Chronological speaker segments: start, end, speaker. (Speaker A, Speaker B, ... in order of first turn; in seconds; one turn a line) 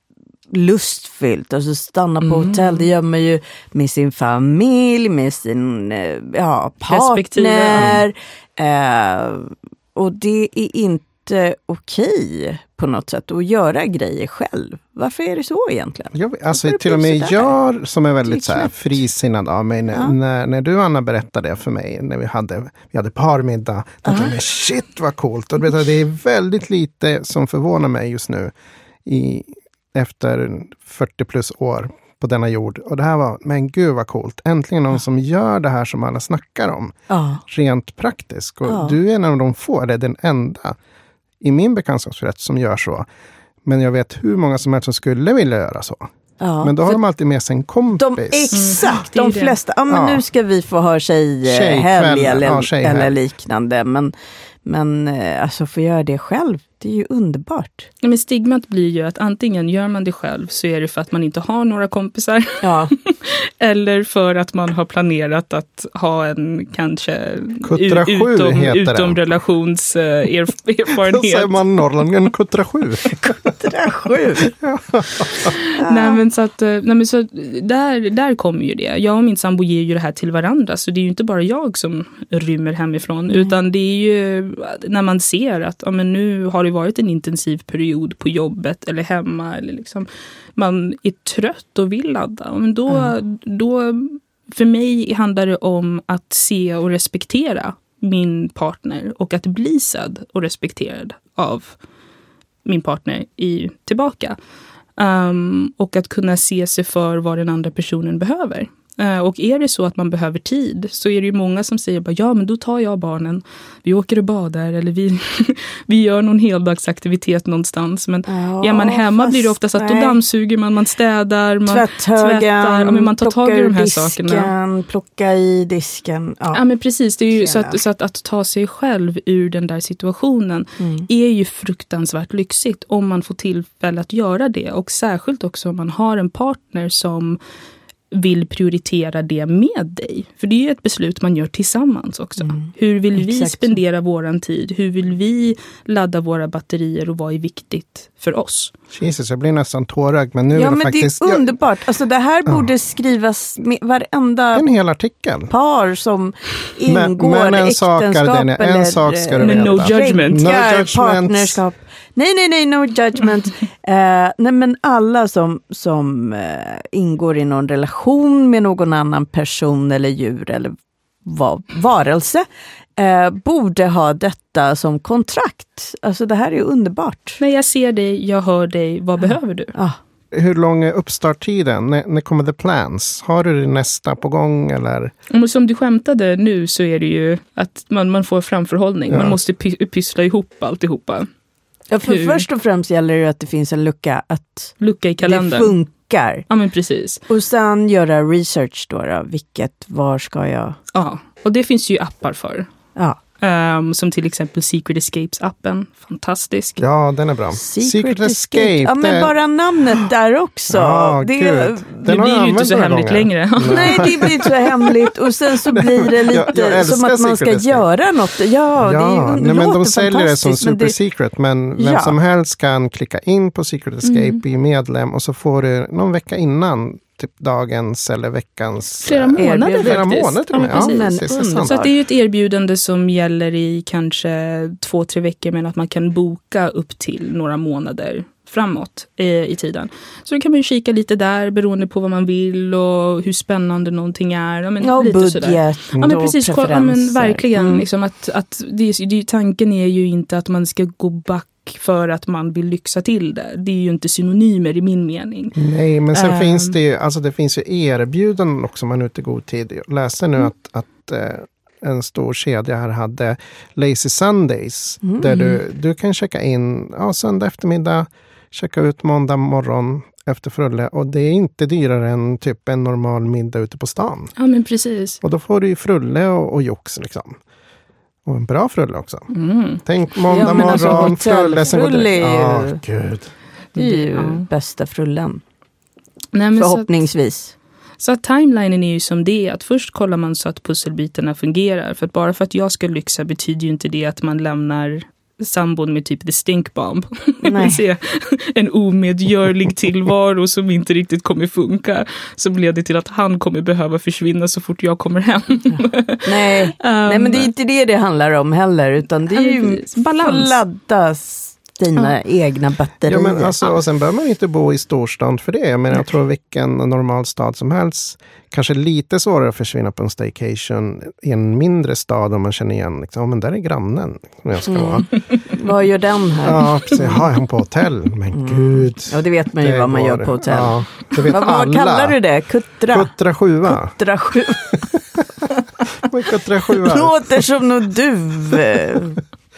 Speaker A: 0.5-17.5
Speaker B: 2.2-2.9
Speaker B: 6.9-8.0
Speaker C: 7.7-8.0
Speaker C: 16.1-28.5
Speaker A: 18.2-18.7
Speaker C: 29.1-36.9
Speaker A: 37.1-37.4
Speaker C: 37.5-40.8
Speaker A: 38.7-39.0
Speaker C: 41.4-43.1
Speaker C: 43.6-46.1
Speaker A: 46.4-47.0
Speaker C: 46.6-48.5
Speaker A: 48.0-54.1
Speaker B: 48.5-49.6
Speaker C: 49.9-50.2
Speaker C: 51.5-53.1
Speaker A: 54.6-57.9
Speaker B: 58.0-71.6
Speaker A: 62.6-62.9
Speaker C: 67.6-69.2
Speaker C: 71.0-73.5
Speaker A: 73.3-74.5
Speaker C: 74.5-75.5
Speaker B: 75.5-101.8
Speaker A: 75.8-76.2
Speaker B: 102.7-104.4
Speaker B: 105.0-124.5
Speaker A: 118.3-120.2
Speaker A: 121.7-126.6
Speaker B: 126.5-137.4
Speaker A: 127.4-127.8
Speaker A: 130.8-131.1
Speaker B: 138.1-148.7
Speaker A: 142.5-143.8
Speaker C: 148.9-151.5
Speaker A: 150.5-154.7
Speaker C: 154.5-155.5
Speaker A: 155.5-177.4
Speaker C: 156.9-161.6
Speaker B: 159.4-160.4
Speaker B: 177.4-179.7
Speaker A: 179.7-180.0
Speaker C: 180.3-185.1
Speaker B: 185.3-191.3
Speaker C: 189.1-189.4
Speaker A: 191.9-196.4
Speaker B: 192.0-192.4
Speaker B: 194.8-195.8
Speaker B: 196.5-197.2
Speaker A: 197.3-200.8
Speaker B: 200.9-202.7
Speaker B: 203.4-206.8
Speaker C: 206.8-209.3
Speaker A: 207.5-212.1
Speaker C: 210.7-214.9
Speaker B: 212.0-214.1
Speaker A: 213.7-220.9
Speaker C: 215.7-217.8
Speaker C: 218.8-231.8
Speaker A: 221.8-222.2
Speaker B: 224.0-224.4
Speaker B: 229.0-255.6
Speaker A: 229.4-231.9
Speaker A: 244.8-247.9
Speaker C: 255.6-274.3
Speaker B: 256.1-256.8
Speaker A: 265.0-265.4
Speaker B: 274.4-275.2
Speaker C: 275.2-277.4
Speaker C: 278.2-279.3
Speaker B: 279.3-279.8
Speaker C: 279.9-283.3
Speaker A: 280.3-282.8
Speaker B: 280.4-281.1
Speaker B: 283.7-284.5
Speaker A: 283.8-285.4
Speaker B: 286.3-287.0
Speaker A: 286.6-287.5
Speaker B: 288.0-307.5
Speaker A: 297.4-297.8
Speaker A: 305.7-313.6
Speaker B: 309.3-310.6
Speaker C: 313.1-325.1
Speaker A: 324.7-327.3
Speaker C: 326.4-332.2
Speaker A: 328.3-333.1
Speaker C: 332.9-334.0
Speaker A: 333.7-334.9
Speaker C: 334.7-337.5
Speaker A: 336.7-339.2
Speaker C: 338.5-339.0